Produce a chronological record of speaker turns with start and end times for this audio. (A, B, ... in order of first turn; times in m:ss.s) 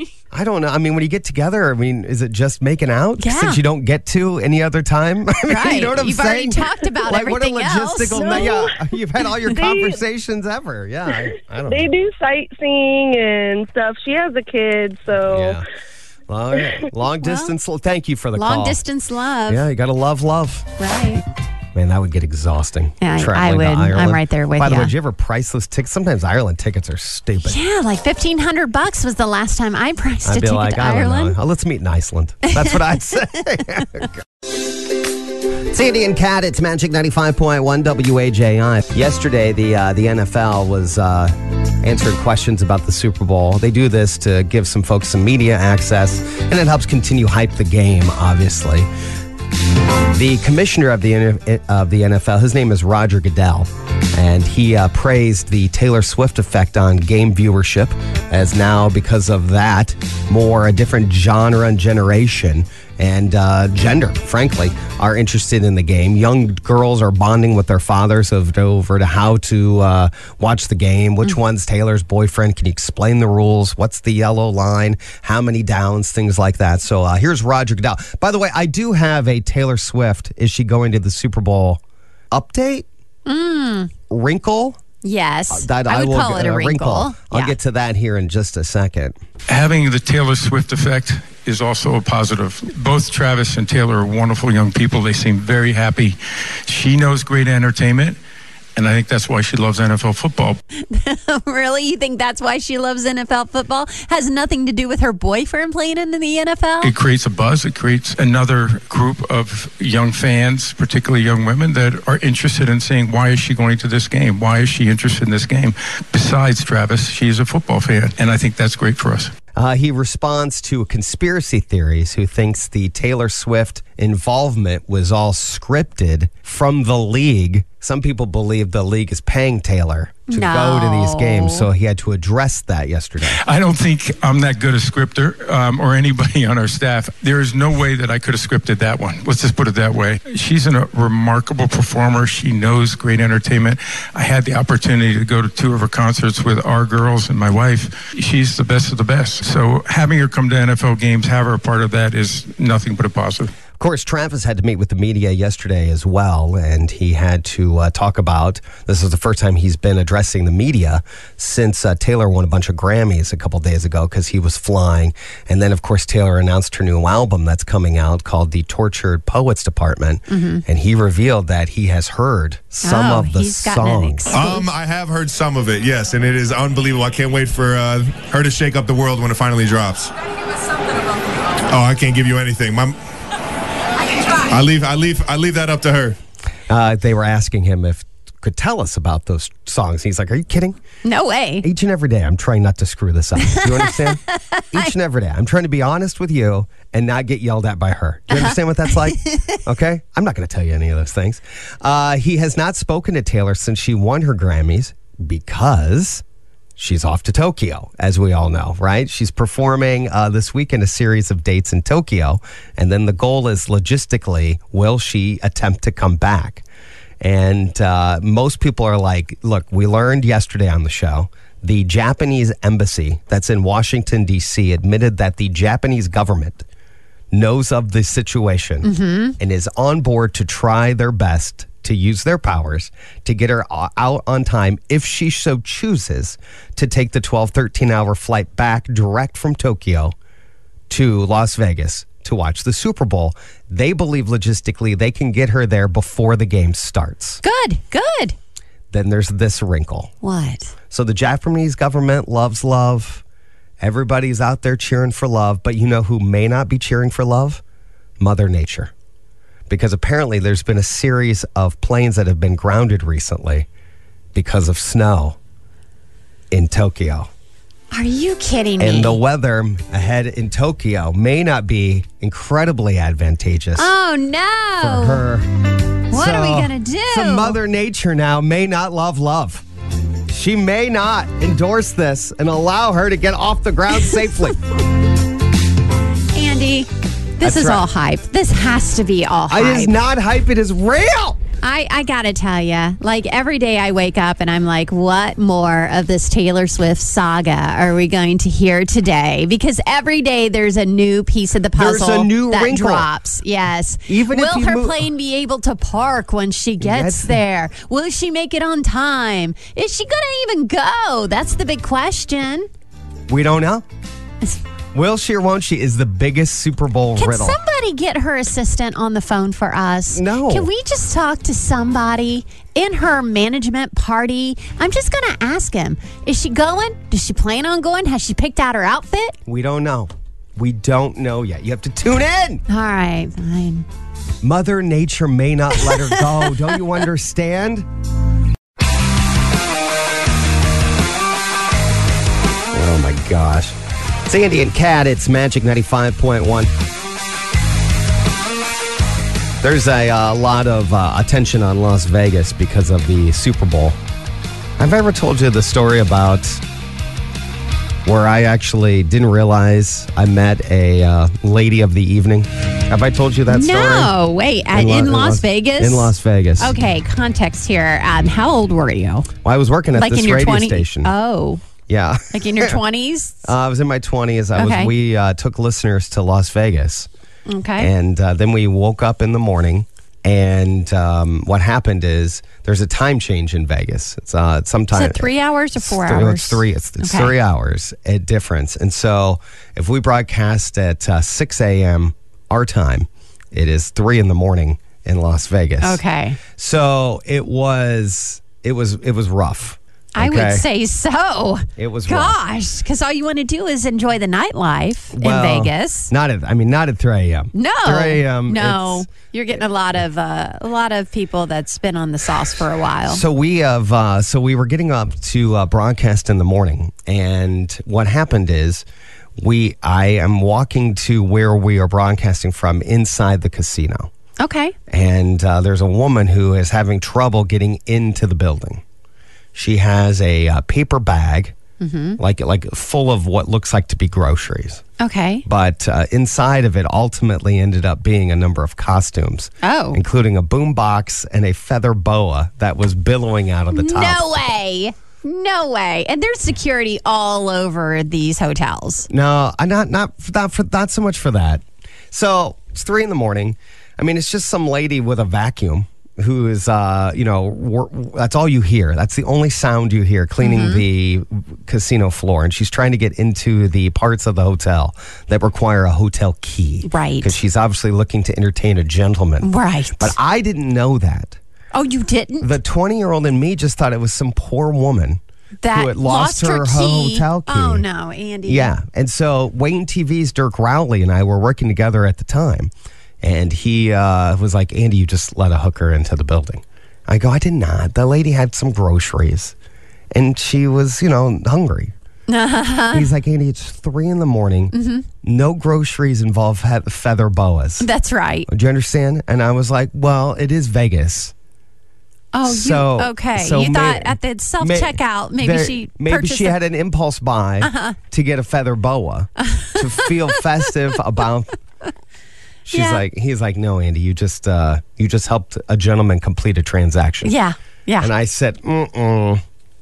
0:00.3-0:11.9 A
0:03.2-0:03.6 B
0:05.4-0:08.6 B
0:08.1-0:08.8 C
0:09.5-0:10.0 C
0:11.6-0:15.6 C
0:15.3-0:15.6 A
0:16.3-0:18.8 A
0:17.2-0:17.5 B
0:18.3-0:19.7 B
0:19.5-0:20.6 A
0:20.8-0:21.2 B
0:21.7-0:27.6 A
0:23.0-0:24.9 B
0:27.4-0:31.4 B
0:30.2-0:34.1 A
0:35.7-0:48.9 A
0:50.1-1:22.8 A
1:23.2-1:23.9 B
1:24.1-1:24.8 A
1:25.0-1:27.6 B
1:25.5-1:29.2 A
1:29.5-1:36.2 D
1:36.7-1:38.2 D
1:38.8-1:40.6 D
1:40.9-1:46.9 B
1:46.8-1:59.3 D
1:59.5-2:13.4 A
2:10.3-2:11.7 B
2:13.3-2:33.5 D
2:33.8-2:54.2 A
2:50.3-2:50.6 B
2:52.8-2:54.7 B
2:54.3-3:00.1 E
3:01.7-3:03.0 E
3:04.4-3:06.2 E
3:06.7-3:10.8 A
3:11.0-3:11.7 B
3:11.6-3:14.2 A
3:13.5-3:14.8 B
3:14.7-3:26.2 A
3:18.3-3:19.3 B
3:26.8-3:36.6 A
3:37.2-3:46.6 A
3:47.3-4:00.1 A
3:48.8-3:49.4 B
4:00.9-4:07.4 A
4:07.4-4:08.3 B
4:08.9-4:10.1 A
4:10.2-4:10.7 B
4:10.9-4:13.2 A
4:13.8-4:17.6 A
4:18.2-4:18.9 A
4:19.7-4:23.7 A
4:24.3-4:25.4 A
4:26.5-4:27.3 A
4:27.9-4:29.2 B
4:28.8-4:33.9 A
4:33.8-4:35.2 B
4:34.8-4:35.4 A
4:36.1-4:39.6 A
4:36.1-4:37.6 B
4:40.3-4:44.6 A
4:46.3-4:50.0 B
4:47.4-4:47.8 A
4:49.5-4:51.4 A
4:51.6-5:12.7 B
5:01.7-5:03.1 A
5:04.1-5:05.1 A
5:06.8-5:07.4 A
5:13.3-5:13.8 A
5:14.9-5:17.6 A
5:17.2-5:29.3 B
5:20.1-5:20.7 A
5:29.4-5:32.6 A
5:32.7-5:33.8 B
5:34.4-5:37.8 A
5:42.7-5:46.7 A
5:49.6-5:54.0 A
5:54.8-5:56.6 A
5:58.0-6:04.1 A
6:03.5-6:09.3 B
6:04.7-6:06.7 A
6:09.4-6:11.1 A
6:09.9-6:11.6 B
6:11.9-6:12.8 A
6:12.3-6:13.5 B
6:13.4-6:17.1 A
6:14.5-6:14.9 B
6:17.5-6:17.9 B
6:17.8-6:36.0 A
6:24.9-6:27.3 B
6:35.8-6:36.4 B
6:36.5-6:40.6 A
6:40.2-6:46.1 B
6:41.8-6:42.4 A
6:45.1-6:49.1 A
6:47.5-6:53.2 B
6:53.0-6:58.8 A
6:59.4-7:04.1 A
7:04.4-7:04.7 B
7:04.9-7:08.8 A
7:09.5-7:11.5 A
7:11.8-7:12.2 B
7:12.2-7:14.8 A
7:15.0-7:15.4 B
7:15.4-7:24.4 A
7:19.6-7:20.0 B
7:23.7-7:29.1 B
7:29.1-7:51.4 A
7:40.4-7:40.8 B
7:46.8-7:47.4 B
7:49.4-7:50.1 B
7:51.7-7:52.5 B
7:52.4-7:57.8 A
7:55.6-7:58.7 B
7:58.4-8:02.7 A
8:03.2-8:09.5 A
8:10.1-8:11.9 A
8:12.3-8:13.1 B
8:12.9-8:17.9 A
8:14.7-8:15.1 B
8:17.8-8:18.5 B
8:18.5-8:21.3 A
8:22.3-8:26.6 B
8:22.4-8:31.5 A
8:27.6-8:28.0 B
8:29.4-8:30.4 B
8:32.6-8:37.3 A
8:32.7-8:33.0 B
8:37.2-8:38.1 B
8:38.0-8:39.4 A